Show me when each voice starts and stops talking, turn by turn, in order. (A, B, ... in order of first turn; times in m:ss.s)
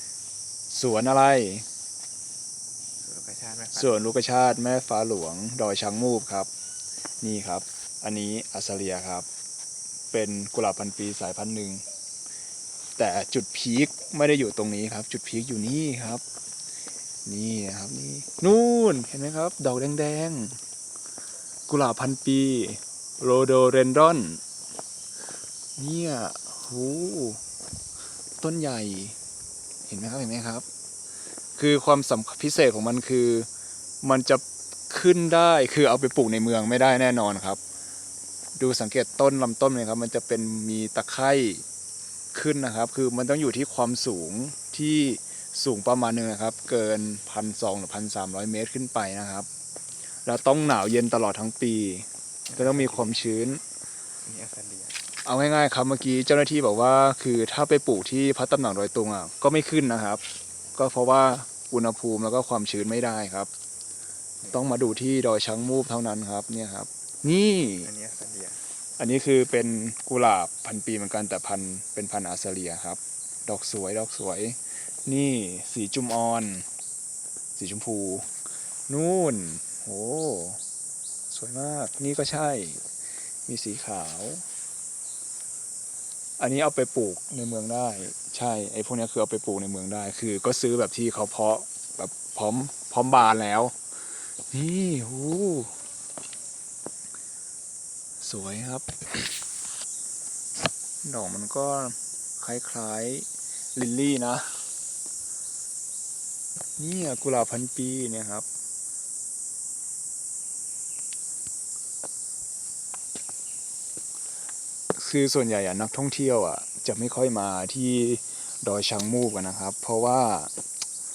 0:00.7-0:01.7 A
0:03.0-0:04.1 B
0:03.7-0:06.5 A
0:07.2-0:09.3 A
0:10.1-0:11.8 A
0:13.0-0:16.2 A
0:17.3-0:20.6 A
0:21.7-0:24.4 A
0:25.8-0:27.4 A
0:28.4-0:29.2 A
0:29.9-0:30.7 A
0:31.6-0:33.5 A
0:34.0-0:37.6 A
0:38.6-0:41.6 A
0:42.3-0:49.5 A
0:50.2-0:53.6 A
0:52.5-0:53.2 B
0:54.2-0:55.0 B
0:55.2-1:00.2 A
1:00.8-1:03.5 A
1:04.4-1:04.7 B
1:04.5-1:07.9 A
1:07.8-1:08.6 B
1:09.0-1:16.7 A
1:17.6-1:18.3 A
1:18.9-1:20.6 A
1:21.3-1:22.8 A
1:23.5-1:24.4 A
1:26.4-1:33.7 A
1:34.5-1:35.7 A
1:38.2-1:39.3 A
1:41.0-1:44.6 A
1:46.8-1:48.5 A
1:54.9-2:00.5 A